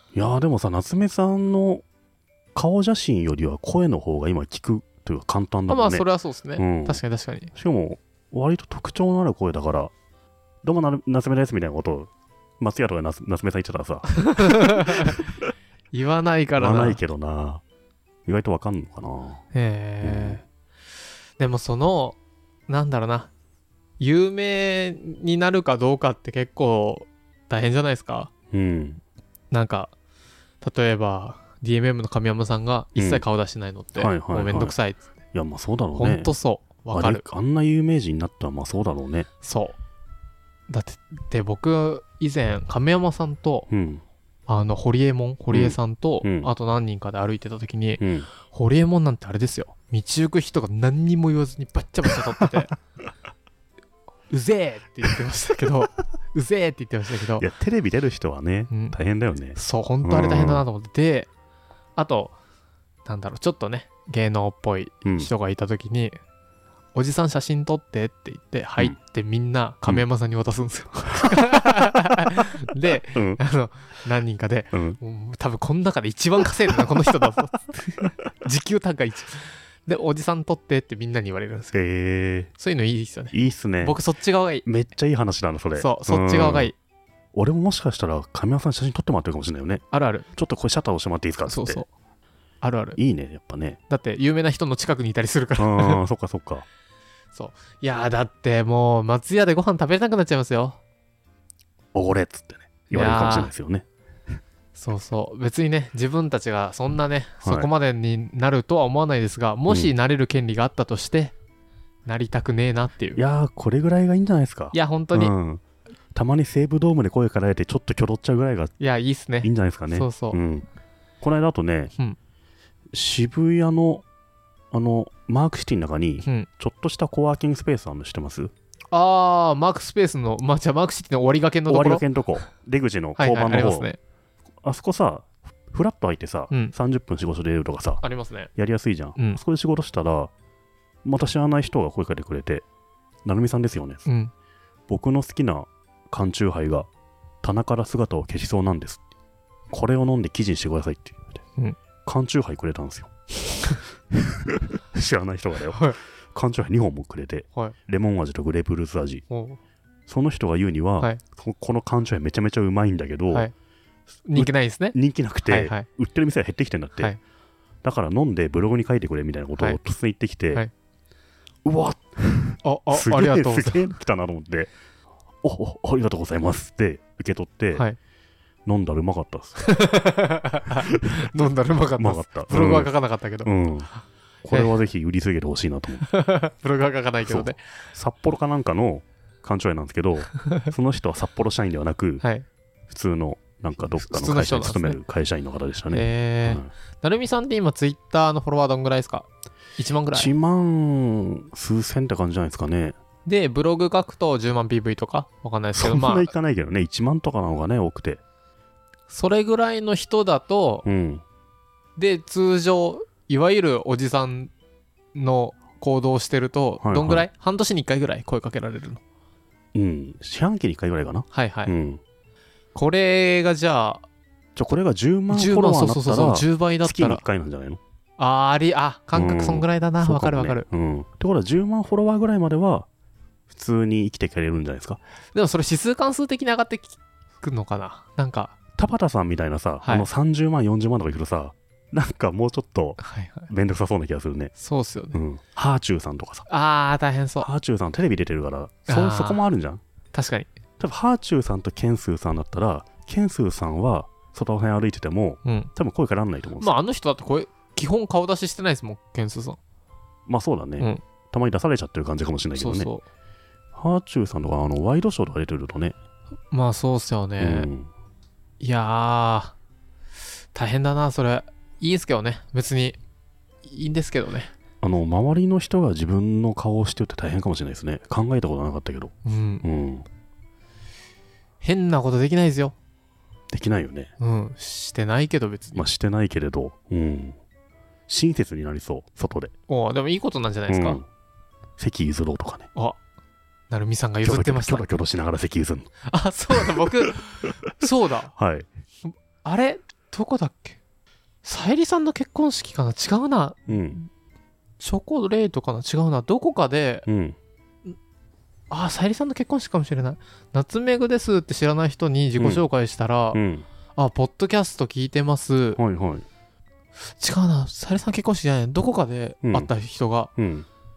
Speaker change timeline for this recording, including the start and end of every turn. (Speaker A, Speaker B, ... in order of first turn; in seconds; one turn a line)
Speaker A: 0.1-1.8
Speaker A: 2.5-6.0
Speaker B: 5.7-7.5
Speaker A: 6.6-7.0
Speaker A: 7.5-9.9
Speaker A: 10.6-15.2
Speaker B: 14.2-15.2
Speaker B: 15.9-17.0
Speaker A: 16.6-17.6
Speaker A: 18.3-19.4
Speaker B: 19.5-20.4
Speaker A: 20.0-20.4
Speaker B: 21.4-23.3
Speaker B: 24.0-28.3
Speaker A: 28.5-29.0
Speaker B: 29.5-29.9
Speaker B: 30.6-35.1
Speaker A: 33.0-33.2
Speaker A: 34.0-34.8
Speaker A: 35.3-36.3
Speaker B: 36.0-37.2
Speaker A: 36.9-39.3
Speaker B: 39.4-39.8
Speaker B: 40.7-43.7
Speaker A: 43.7-44.0
Speaker B: 44.5-52.8
Speaker A: 45.5-46.5
Speaker A: 48.0-48.3
Speaker B: 54.3-57.5
Speaker A: 57.4-60.6
Speaker B: 58.7-59.0
Speaker B: 59.5-61.3
Speaker B: 62.0-62.3
Speaker B: 63.0-66.2
Speaker A: 65.0-65.3
Speaker B: 67.0-81.8
Speaker A: 73.1-73.4
Speaker A: 74.7-75.0
Speaker A: 81.7-82.5
Speaker B: 82.6-84.7
Speaker A: 83.3-84.0
Speaker A: 84.7-86.7
Speaker B: 85.8-86.8
Speaker A: 87.3-91.8
Speaker B: 89.9-90.3
Speaker B: 91.5-91.9
Speaker B: 92.6-93.0
Speaker A: 93.0-93.8
Speaker B: 93.9-96.0
Speaker A: 95.6-96.7
Speaker B: 97.3-100.8
Speaker A: 101.9-103.9
Speaker B: 102.9-103.5
Speaker B: 104.8-111.3
Speaker A: 107.4-107.7
Speaker B: 112.1-113.2
Speaker A: 113.2-115.6
Speaker B: 114.7-115.3
Speaker A: 116.1-118.8
Speaker B: 118.8-120.4
Speaker A: 119.4-120.7
Speaker A: 121.2-121.9
Speaker A: 122.9-124.0
Speaker A: 124.7-128.5
Speaker B: 126.2-126.5
Speaker B: 128.9-132.1
Speaker A: 131.7-133.9
Speaker B: 133.2-134.0
Speaker A: 134.6-138.0
Speaker B: 138.0-138.5
Speaker A: 138.6-140.3
Speaker A: 141.1-142.6
Speaker A: 143.2-144.0
Speaker B: 144.1-144.3
Speaker A: 144.9-146.9
Speaker A: 147.4-149.0
Speaker A: 149.7-151.4
Speaker A: 152.1-153.1
Speaker A: 154.1-159.2
Speaker B: 159.3-159.6
Speaker A: 160.1-163.5
Speaker B: 164.3-165.9
Speaker A: 164.3-167.1
Speaker A: 167.8-170.6
Speaker A: 171.7-174.7
Speaker B: 172.6-173.8
Speaker A: 175.4-177.9
Speaker A: 178.7-179.8
Speaker B: 179.6-183.5
Speaker A: 180.9-181.3
Speaker A: 182.0-182.9
Speaker A: 183.4-183.9
Speaker A: 184.4-186.1
Speaker B: 186.1-187.6
Speaker A: 187.2-192.2
Speaker A: 192.9-196.7
Speaker B: 194.0-195.0
Speaker B: 195.9-200.3
Speaker A: 200.1-203.0
Speaker B: 203.2-206.3
Speaker A: 205.7-208.2
Speaker B: 209.1-210.9
Speaker A: 210.8-211.2
Speaker B: 212.0-214.5
Speaker B: 215.1-219.0
Speaker A: 216.8-217.3
Speaker A: 219.8-222.0
Speaker B: 221.3-221.7
Speaker B: 222.7-224.1
Speaker A: 224.6-227.8
Speaker B: 225.3-227.2
Speaker B: 228.2-230.7
Speaker A: 229.1-232.9
Speaker A: 233.5-235.0
Speaker B: 235.3-238.5
Speaker A: 238.8-244.5
Speaker B: 239.8-240.1
Speaker B: 243.0-243.5
Speaker B: 244.6-245.2
Speaker A: 245.1-246.5
Speaker B: 246.5-247.5
Speaker A: 247.4-249.8
Speaker B: 248.9-249.4
Speaker B: 250.1-250.5
Speaker A: 250.8-256.8
Speaker B: 255.4-255.7
Speaker B: 256.6-259.6
Speaker A: 260.3-262.9
Speaker B: 262.6-263.0
Speaker A: 263.7-266.0
Speaker B: 266.5-267.7
Speaker A: 267.4-267.9
Speaker B: 268.6-269.5
Speaker B: 270.5-273.0
Speaker B: 273.6-274.5
Speaker A: 274.8-280.1
Speaker B: 279.2-279.6
Speaker B: 281.6-282.7
Speaker A: 283.5-284.1
Speaker B: 284.2-285.8
Speaker A: 285.8-287.4
Speaker A: 288.1-289.5
Speaker B: 289.7-291.0
Speaker A: 290.7-291.1
Speaker A: 291.8-292.7
Speaker B: 293.7-294.9
Speaker A: 294.2-295.9
Speaker B: 296.1-298.3
Speaker A: 296.5-297.1
Speaker A: 298.3-298.7
Speaker B: 299.1-300.8
Speaker B: 301.4-304.1
Speaker A: 303.7-304.0
Speaker B: 304.8-307.1
Speaker A: 307.1-307.4
Speaker B: 308.7-313.4
Speaker A: 312.4-312.6
Speaker A: 313.3-313.6
Speaker B: 314.0-315.8
Speaker A: 315.8-316.2
Speaker B: 317.2-320.3
Speaker A: 319.4-319.7
Speaker A: 320.4-320.7